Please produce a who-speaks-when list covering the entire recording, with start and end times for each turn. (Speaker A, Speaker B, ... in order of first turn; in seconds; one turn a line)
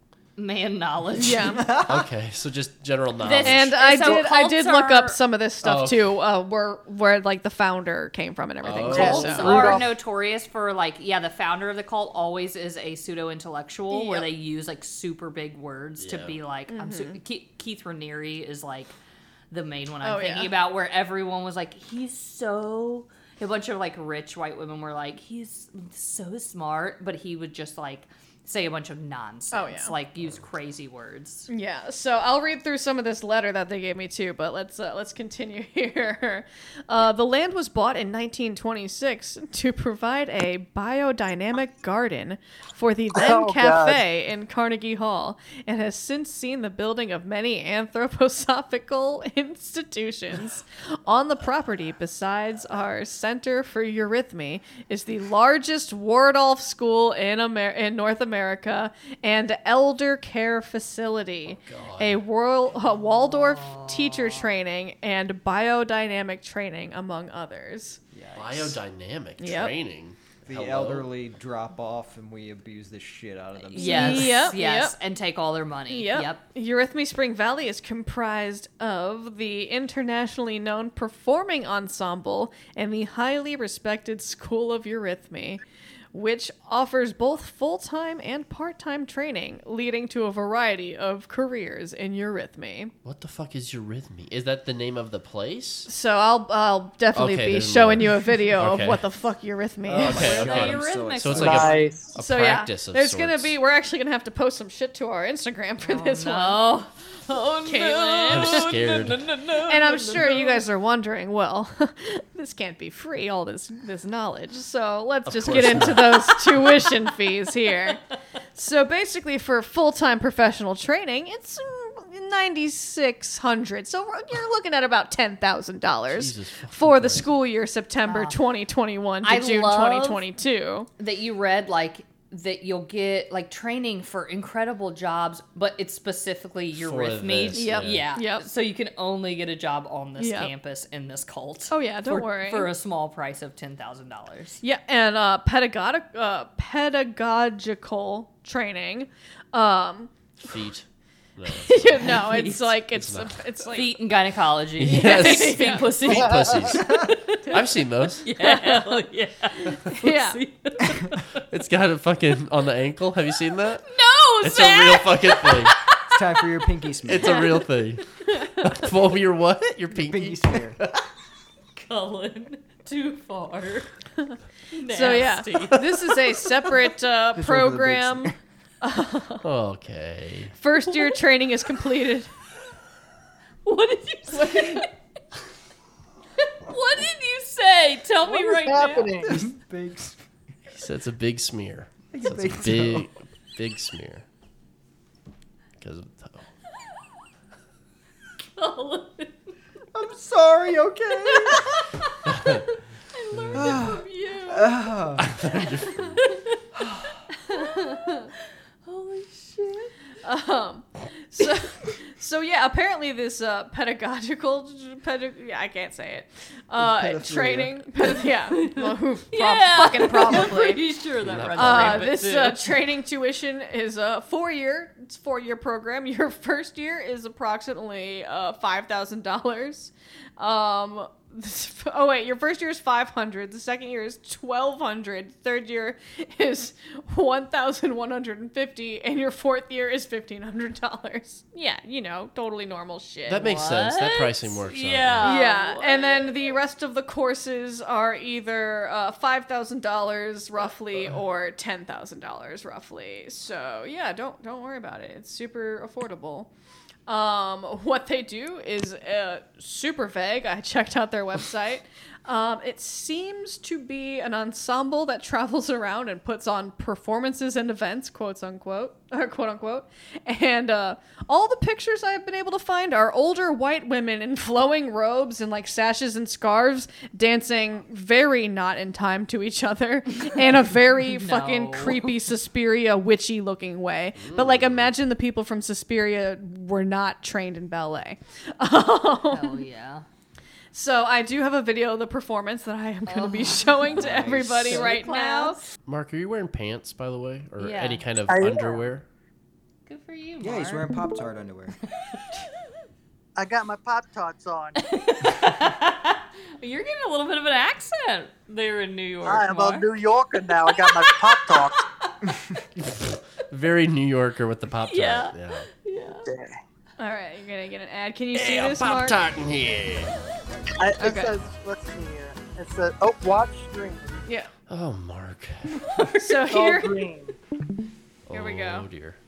Speaker A: 0.4-1.6
Speaker B: 1.1-1.6
Speaker C: 1.4-2.1
Speaker D: 1.9-3.8
Speaker A: 3.2-5.2
Speaker B: 3.4-9.8
Speaker D: 5.6-6.0
Speaker D: 8.6-9.8
Speaker A: 8.9-18.9
Speaker E: 8.9-9.9
Speaker B: 13.9-14.3
Speaker D: 16.0-16.4
Speaker B: 16.7-17.2
Speaker A: 19.5-31.5
Speaker B: 20.0-20.5
Speaker B: 29.5-29.9
Speaker B: 31.5-68.0
Speaker E: 43.1-44.0
Speaker D: 61.5-62.2
Speaker A: 62.9-64.4
Speaker C: 68.1-68.8
Speaker D: 68.3-71.1
Speaker B: 69.4-69.7
Speaker C: 70.5-74.5
Speaker A: 73.7-76.4
Speaker B: 73.7-75.0
Speaker B: 75.9-92.9
Speaker D: 93.0-95.9
Speaker B: 95.9-100.4
Speaker D: 97.1-99.0
Speaker C: 99.8-101.8
Speaker D: 100.0-103.6
Speaker A: 100.1-101.9
Speaker E: 101.3-102.1
Speaker B: 102.1-106.6
Speaker A: 105.8-110.6
Speaker B: 107.7-108.7
Speaker D: 108.3-109.2
Speaker B: 109.7-118.0
Speaker D: 115.2-116.4
Speaker B: 118.5-130.9
Speaker D: 126.1-127.3
Speaker A: 128.0-128.4
Speaker A: 129.2-130.2
Speaker A: 131.0-144.6
Speaker D: 136.8-138.0
Speaker B: 137.5-138.4
Speaker B: 140.2-140.5
Speaker B: 141.7-142.7
Speaker B: 144.6-150.1
Speaker D: 150.4-150.8
Speaker D: 151.4-152.1
Speaker B: 151.5-153.9
Speaker A: 152.0-152.7
Speaker D: 152.9-153.4
Speaker A: 153.7-157.6
Speaker D: 154.8-156.8
Speaker B: 154.9-155.9
Speaker E: 156.1-156.5
Speaker D: 157.5-158.2
Speaker A: 158.2-161.2
Speaker B: 158.4-158.9
Speaker B: 159.7-160.4
Speaker D: 161.5-163.9
Speaker A: 163.9-166.1
Speaker D: 164.4-165.8
Speaker C: 166.1-167.5
Speaker D: 167.1-168.0
Speaker A: 167.2-167.6
Speaker D: 168.6-171.0
Speaker C: 169.9-170.8
Speaker A: 171.8-173.9
Speaker A: 174.7-175.8
Speaker B: 174.9-179.4
Speaker C: 177.3-178.3
Speaker D: 179.4-180.5
Speaker B: 180.6-182.3
Speaker A: 183.6-184.9
Speaker B: 184.3-184.9
Speaker A: 186.7-189.2
Speaker E: 188.5-189.4
Speaker C: 189.2-190.2
Speaker D: 190.7-194.2
Speaker C: 192.1-193.1
Speaker D: 195.8-196.5
Speaker A: 198.6-199.5
Speaker C: 199.9-201.8
Speaker D: 202.3-202.6
Speaker A: 203.1-204.4
Speaker C: 203.5-205.3
Speaker B: 203.7-204.6
Speaker D: 205.2-206.2
Speaker A: 206.2-206.6
Speaker C: 206.8-207.1
Speaker B: 207.5-208.3
Speaker A: 208.8-209.9
Speaker B: 210.2-220.8
Speaker C: 216.8-217.8
Speaker A: 218.5-222.7
Speaker D: 221.2-222.1
Speaker B: 221.5-243.5
Speaker D: 243.2-245.4
Speaker A: 243.4-246.5
Speaker B: 245.2-256.5
Speaker B: 257.1-289.6
Speaker A: 281.1-282.1
Speaker D: 284.1-284.9
Speaker A: 289.3-290.0
Speaker B: 290.7-295.6
Speaker A: 293.1-294.0
Speaker C: 293.9-294.9
Speaker A: 294.6-295.7
Speaker D: 295.9-299.1
Speaker A: 297.6-298.0
Speaker E: 298.3-298.8
Speaker A: 299.9-300.9
Speaker C: 300.4-301.7
Speaker E: 303.4-304.8
Speaker A: 304.8-309.9
Speaker E: 309.2-311.8
Speaker A: 310.7-311.8
Speaker D: 312.9-315.7
Speaker A: 314.9-316.3
Speaker E: 316.3-316.6
Speaker B: 317.0-319.2
Speaker D: 318.3-320.1
Speaker E: 320.8-324.2
Speaker B: 321.0-321.3
Speaker B: 324.2-324.5
Speaker D: 324.7-325.8
Speaker B: 326.1-327.0
Speaker E: 326.4-327.4
Speaker D: 328.3-329.2
Speaker B: 328.3-328.9